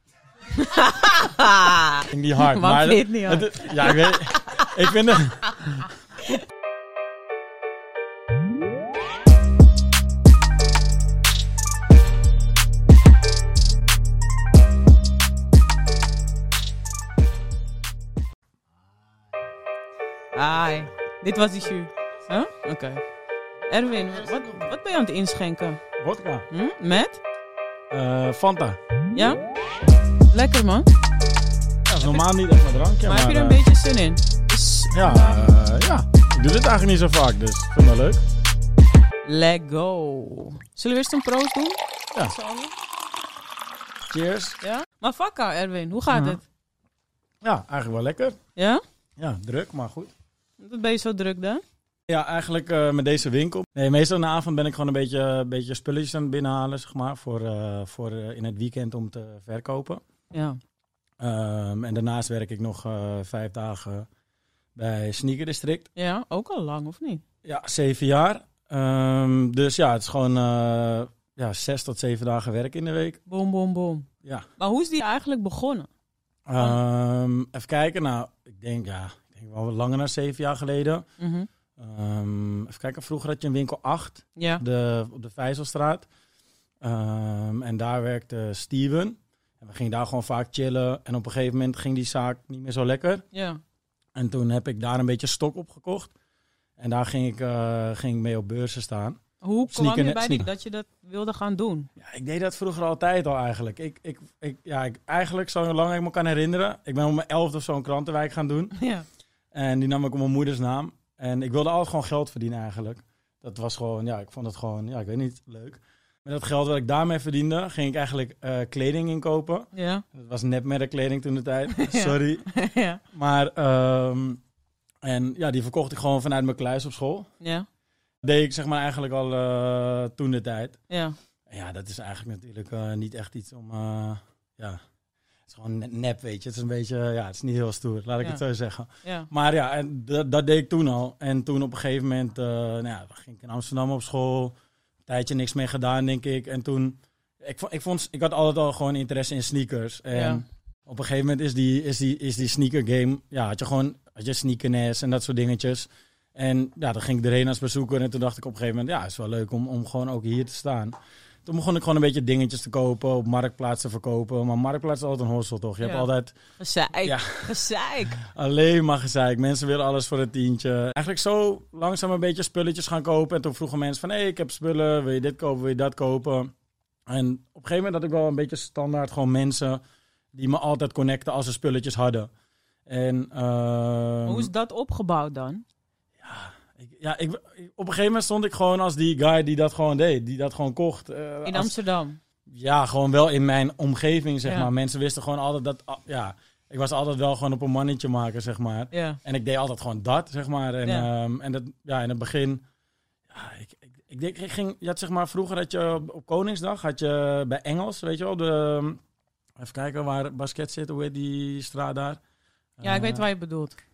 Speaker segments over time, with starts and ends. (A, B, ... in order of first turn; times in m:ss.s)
0:00.5-0:04.6 A
0:02.0-0:05.8 B
0:20.3-0:23.0 A
0:23.7-0:25.8 A
0:26.0-0:26.5 B
0:26.5-0:27.2 A
0:27.9-0:28.8 B
0:29.1-0:29.4 A
0:30.3-0:30.9 A
0:31.9-0:33.6 B
0:33.0-0:35.4 A
0:34.9-0:38.2 B
0:39.2-0:42.7 A
0:44.1-0:44.6 B
0:44.6-0:46.4 A
0:46.1-0:46.4 B
0:47.4-0:48.4 B
0:48.6-0:48.8 A
0:49.2-0:50.1 B
0:50.6-0:51.6 A
0:52.1-1:00.0 B
1:00.3-1:00.6 A
1:01.2-1:04.1 B
1:04.8-1:05.9 B
1:06.0-1:07.2 A
1:07.4-1:13.2 B
1:13.3-1:15.9 A
1:16.5-1:21.0 B
1:21.2-1:21.5 A
1:21.8-1:26.1 B
1:24.4-1:24.6 A
1:26.8-1:33.2 B
1:33.3-1:33.6 A
1:34.2-1:36.1 B
1:36.8-1:40.5 B
1:39.4-1:41.9 A
1:42.0-1:48.8 B
1:48.8-1:49.0 A
1:49.5-2:02.5 B
1:59.7-2:00.0 A
2:01.7-2:03.0 A
2:03.1-2:04.4 B
2:05.0-2:07.3 B
2:07.4-2:07.6 A
2:08.2-2:10.8 B
2:10.9-2:11.2 A
2:11.5-2:14.8 B
2:15.5-2:24.5 B
2:19.0-2:19.3 A
2:25.1-2:46.4 B
2:30.1-2:30.4 A
2:45.8-2:48.2 A
2:47.0-2:47.6 B
2:48.2-2:56.5 B
2:57.1-2:59.8 B
3:00.3-3:02.3 B
3:02.9-3:04.5 B
3:04.2-3:05.6 A
3:06.2-3:11.7 B
3:11.4-3:12.2 A
3:12.5-3:22.6 B
3:18.9-3:19.2 A
3:23.3-3:29.0 B
3:29.6-3:32.2 B
3:32.8-3:33.2 B
3:32.8-3:33.8 A